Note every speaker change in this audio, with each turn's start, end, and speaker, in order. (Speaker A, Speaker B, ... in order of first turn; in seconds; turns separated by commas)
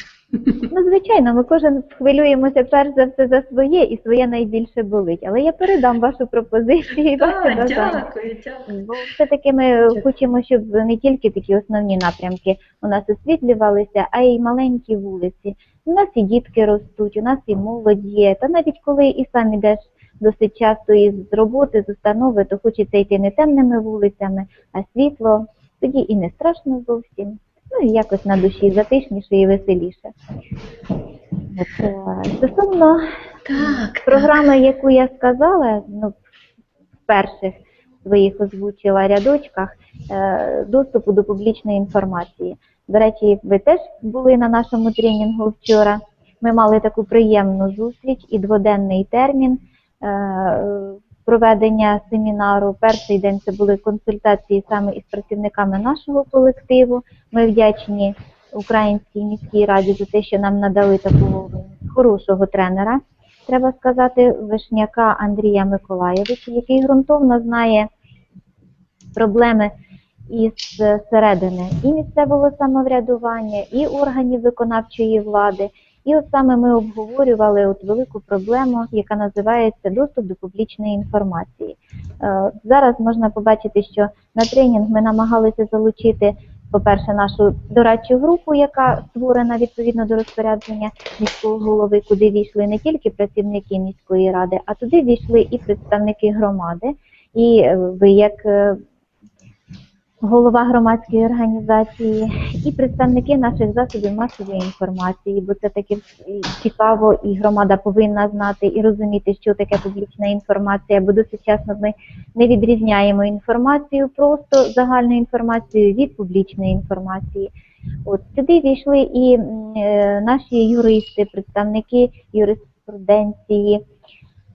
Speaker A: 0.3-0.7, Speaker B: 0.7-8.0, Speaker A: 7.2-8.7, Speaker B: 8.7-30.1, Speaker B: 31.5-33.0, Speaker A: 33.5-34.4, Speaker B: 33.6-36.1, Speaker B: 37.1-67.9, Speaker B: 69.2-69.7, Speaker B: 70.3-98.8, Speaker B: 100.2-117.5, Speaker B: 118.0-123.8